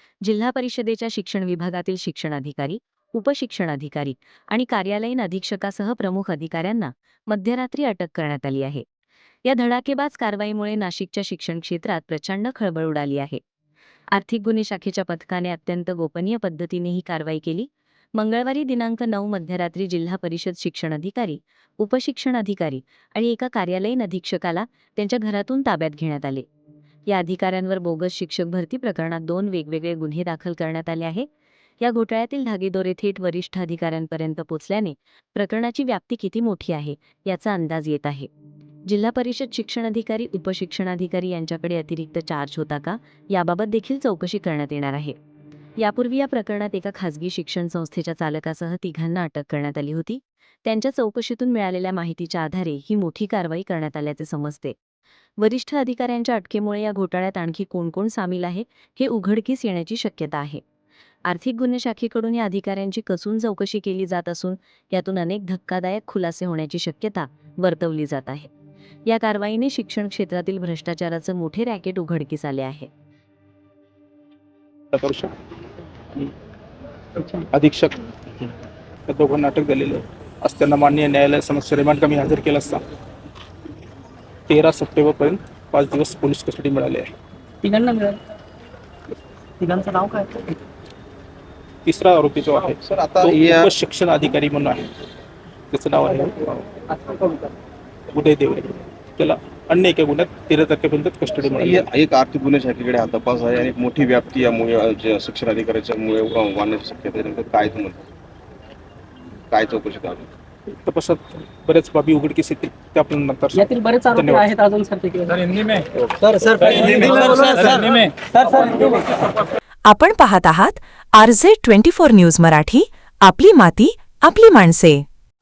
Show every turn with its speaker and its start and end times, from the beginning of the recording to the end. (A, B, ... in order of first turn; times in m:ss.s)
0:00.2-0:08.8 A
0:09.4-0:13.4 A
0:14.1-0:26.5 A
0:27.1-0:31.3 A
0:31.8-0:38.3 A
0:38.9-0:45.2 A
0:45.8-0:54.8 A
0:55.4-1:00.6 A
1:01.3-1:08.5 A
1:09.1-1:12.9 A
1:14.9-1:15.3 B
1:17.3-1:18.0 B
1:19.1-1:22.8 B
1:24.5-1:27.1 B
1:27.6-1:28.2 C
1:29.6-1:30.3 C
1:31.8-1:34.8 B
1:32.8-1:33.7 D
1:35.7-1:36.7 B
1:38.1-1:41.9 B
1:41.6-1:48.0 D
1:49.5-1:50.3 D
1:50.9-1:54.6 B
1:53.7-1:55.5 C
1:56.4-1:58.0 B
1:58.5-1:58.9 C
1:59.9-2:05.0 E